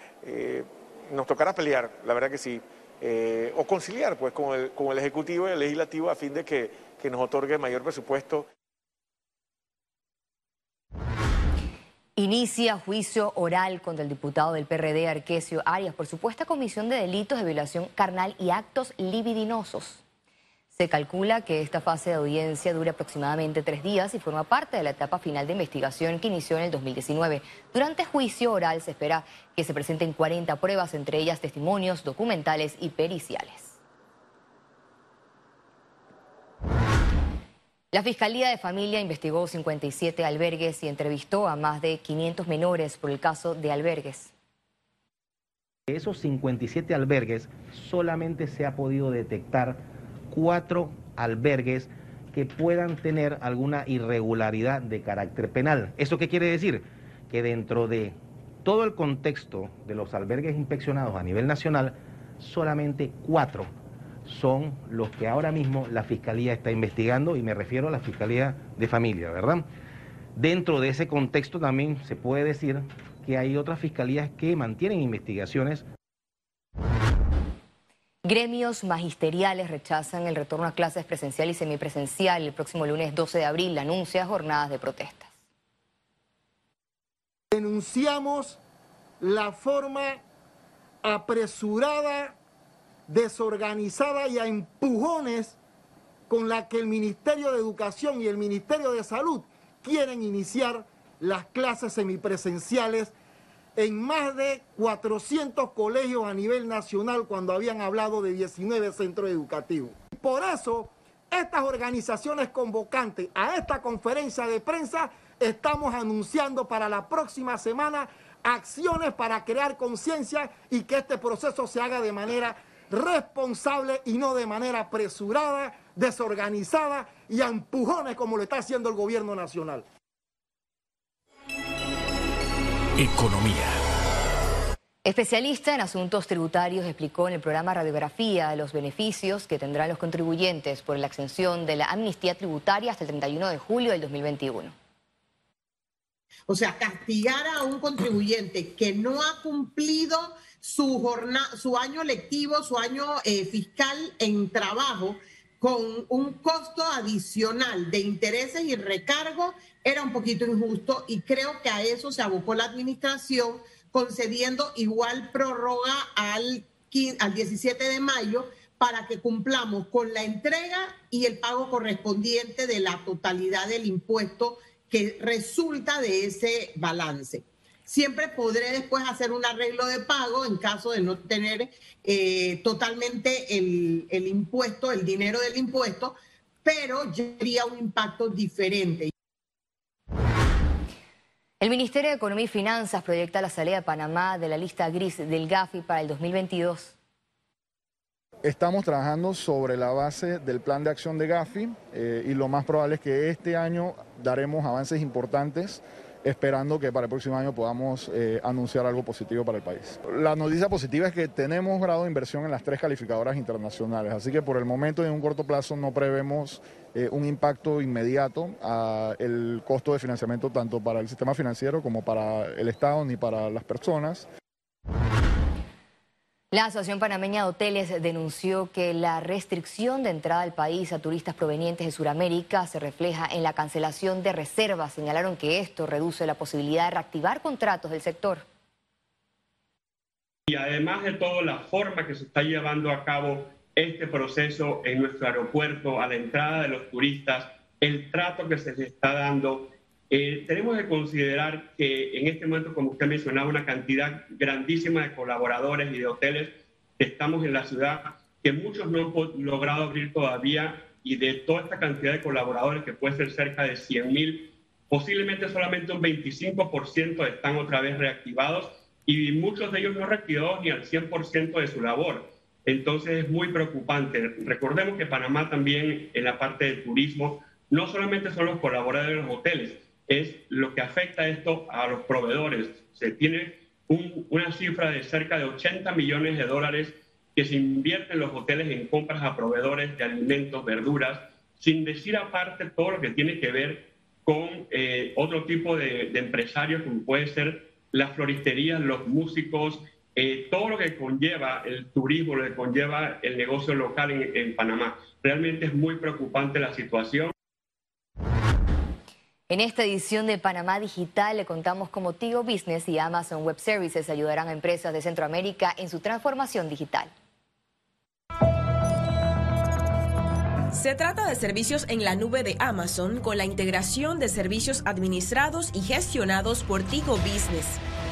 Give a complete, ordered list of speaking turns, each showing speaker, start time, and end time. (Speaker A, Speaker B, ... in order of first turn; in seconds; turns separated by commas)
Speaker A: 0.2-8.5, Speaker B: 12.2-20.0, Speaker B: 20.7-33.8, Speaker B: 37.9-44.3, Speaker C: 45.9-63.7, Speaker C: 64.3-69.7, Speaker C: 70.4-75.8, Speaker B: 78.2-85.3, Speaker D: 87.5-88.6, Speaker D: 89.2-90.2, Speaker D: 91.0-92.4, Speaker D: 93.1-95.6, Speaker D: 96.3-103.2, Speaker D: 103.8-129.8, Speaker B: 135.1-144.7, Speaker E: 146.5-186.1, Speaker E: 186.7-189.1, Speaker B: 191.6-196.9, Speaker F: 198.4-224.3, Speaker B: 226.5-238.4, Speaker G: 240.5-307.3, Speaker B: 309.5-317.1, Speaker H: 320.7-327.8